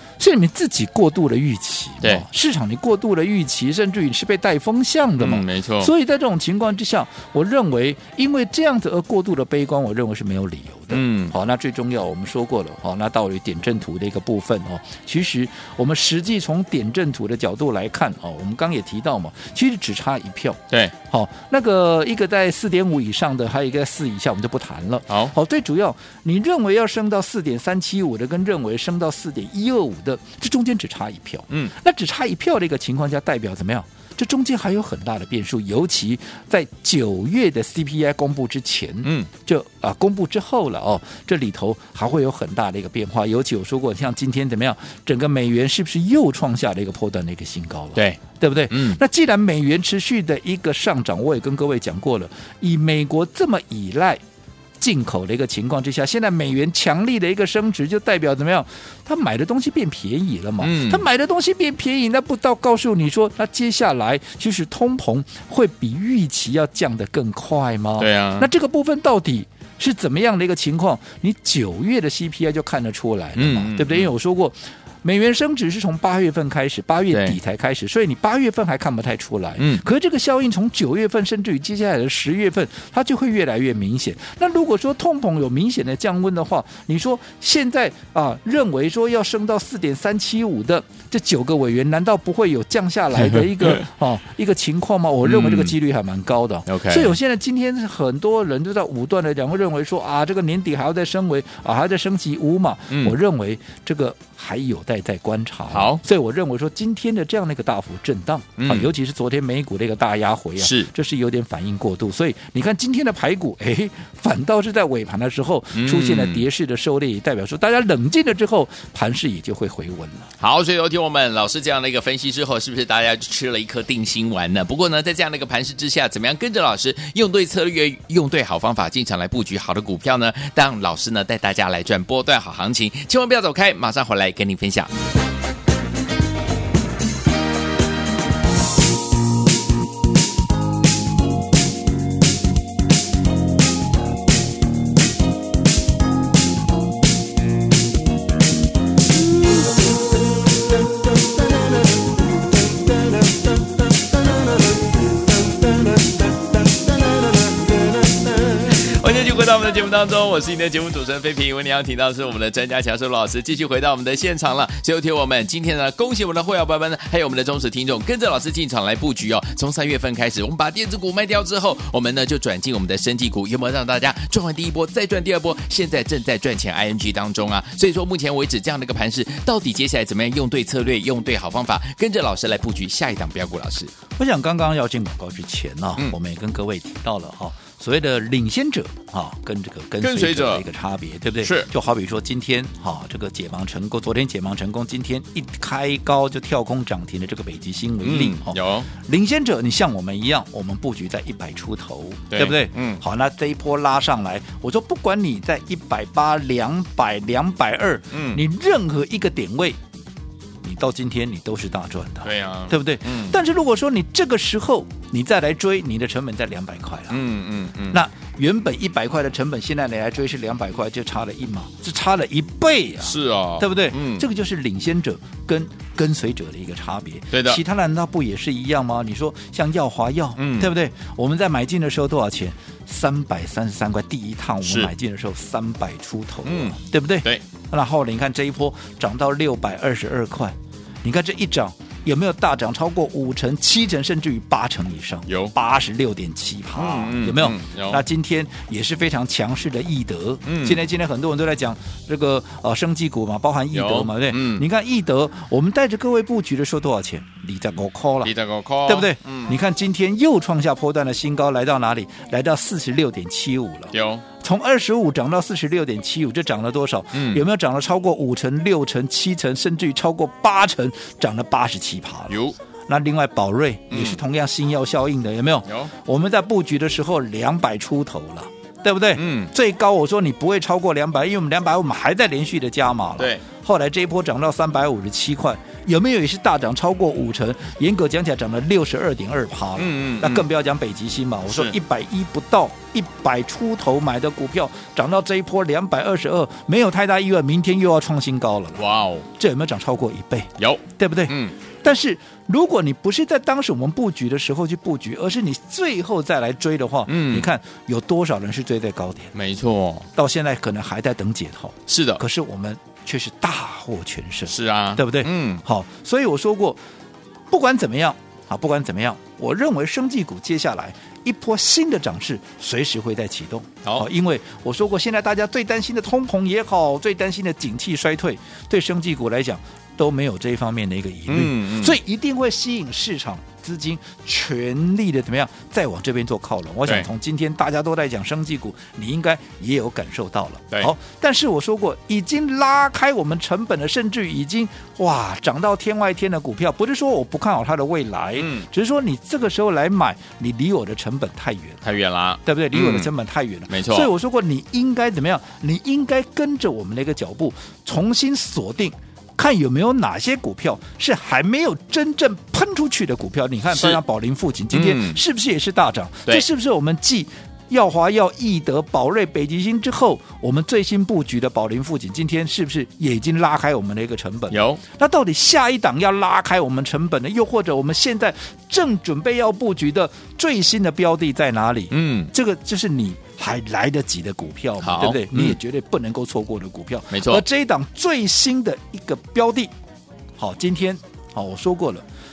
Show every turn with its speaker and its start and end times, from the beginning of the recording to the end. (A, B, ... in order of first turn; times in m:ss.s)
0:00.2-0:54.2 A
0:05.2-0:05.9 B
0:10.9-0:11.3 B
0:39.0-0:39.3 B
0:48.7-0:49.0 B
0:54.8-2:00.3 A
1:00.6-1:01.0 B
1:08.0-1:08.5 B
1:13.4-1:14.1 B
1:17.1-1:17.4 B
1:19.6-1:19.8 B
1:33.2-1:33.8 B
1:35.2-1:35.7 B
1:36.7-1:37.2 B
1:45.7-1:46.0 B
1:48.6-1:48.9 B
1:50.6-1:50.9 B
1:55.7-1:56.4 B
2:00.4-2:14.9 B
2:35.7-3:03.9 B
3:04.2-3:29.8 A
3:10.0-3:10.6 B
3:11.4-3:11.7 B
3:18.0-3:18.9 B
3:22.3-3:23.0 B
3:28.1-3:28.4 B
3:30.6-3:37.2 A
3:32.2-3:33.4 B
3:37.1-3:38.0 B
3:37.9-4:18.3 A
3:43.0-3:44.2 B
3:47.3-3:47.6 B
3:50.4-3:50.7 B
3:54.6-3:54.9 B
3:56.4-3:57.4 B
4:05.3-4:05.5 B
4:06.8-4:08.0 B
4:10.5-4:10.8 B
4:13.7-4:14.6 B
4:18.2-4:19.6 B
4:18.8-4:58.8 A
4:23.9-4:24.2 B
4:27.1-4:27.4 B
4:32.3-4:32.6 B
4:33.9-4:34.2 B
4:35.7-4:35.9 B
4:39.1-4:39.5 B
4:43.2-4:43.4 B
4:49.8-4:50.5 B
4:51.5-4:51.8 B
4:58.8-4:59.3 B
4:59.4-5:09.3 A
5:00.6-5:01.5 B
5:07.1-5:07.5 B
5:09.3-5:10.1 B
5:10.1-5:16.8 A
5:11.9-5:12.2 B
5:14.5-5:15.6 B
5:17.5-5:51.9 A
5:31.3-5:32.0 B
5:48.4-5:48.6 B
5:51.8-5:53.1 B
5:52.4-6:29.7 A
5:53.7-5:54.1 B
6:03.7-6:04.0 B
6:04.7-6:05.2 B
6:14.5-6:14.8 B
6:21.9-6:22.3 B
6:24.8-6:25.6 B
6:27.1-6:27.4 B
6:30.4-6:32.0 A